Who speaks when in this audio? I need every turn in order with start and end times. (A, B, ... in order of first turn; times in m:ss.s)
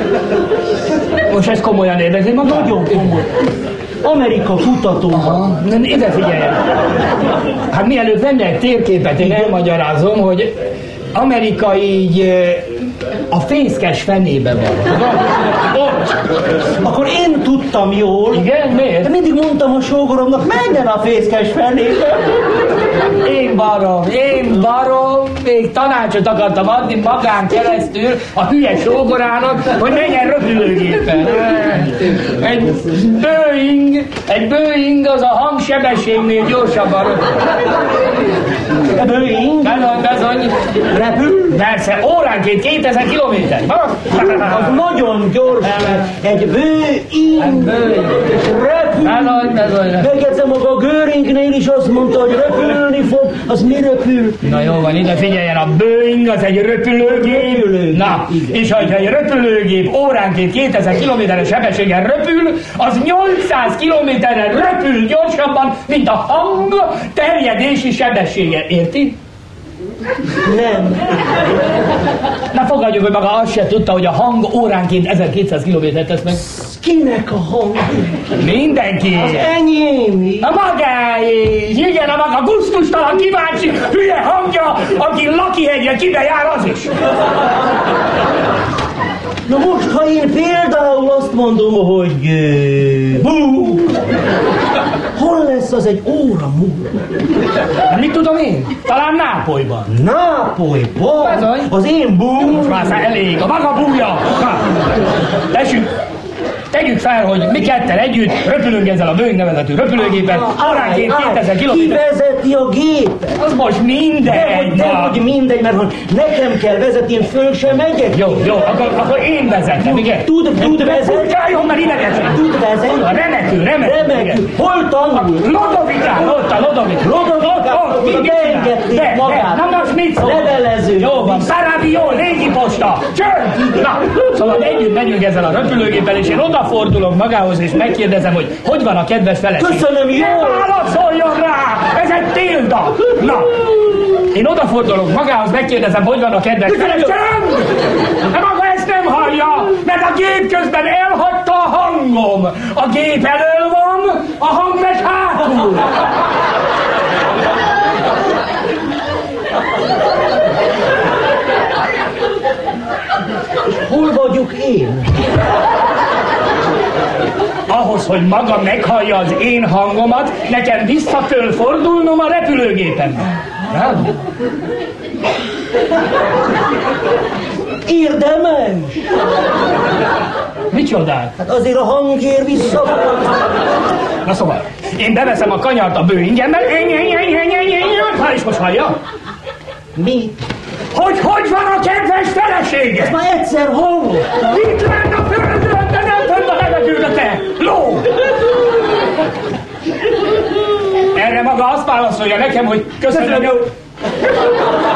0:01.3-0:03.1 A
0:02.4-0:03.3 B
0:04.0-0:05.5 B
0:05.1-0:06.6 A
0:07.7-0:10.5 A
0:09.2-0:09.6 B
0:11.1-0:12.7 A
0:13.3-0:15.1 A
0:16.8-0:18.5 B
0:18.3-0:19.1 A
0:19.0-0:22.3 B
0:23.2-0:37.4 A
0:38.9-0:39.9 B
0:39.6-0:40.5 A
0:40.9-0:41.6 B
0:41.5-0:44.7 A
0:44.1-0:54.4 B
0:47.4-0:48.3 A
0:49.0-0:50.1 A
0:54.4-1:09.2 A
0:57.0-0:59.0 B
1:10.4-1:11.2 B
1:12.5-1:16.4 A
1:16.3-1:18.3 B
1:18.4-1:19.5 A
1:19.1-1:20.5 B
1:20.4-1:26.9 A
1:29.5-1:34.0 B
1:35.1-1:37.0 B
1:37.9-1:39.9 A
1:39.9-1:43.0 B
1:41.2-1:41.7 A
1:42.4-1:44.8 A
1:45.5-1:45.9 A
1:46.7-1:52.0 A
1:50.0-1:53.4 B
1:53.4-1:55.2 A
1:54.2-1:58.5 B
1:58.1-2:04.5 A
1:59.8-2:05.5 B
2:05.1-2:35.9 A
2:07.0-2:11.5 B
2:19.6-2:20.7 B
2:26.6-2:27.2 B
2:43.6-2:45.3 B
2:47.7-2:54.0 A
2:57.8-2:59.0 B
3:00.7-3:01.3 A
3:01.4-3:03.4 B
3:04.2-3:09.0 A
3:09.9-3:10.4 B
3:10.9-3:13.2 A
3:12.9-3:14.4 B
3:14.4-3:18.1 A
3:21.1-3:23.7 A
3:23.1-3:23.6 B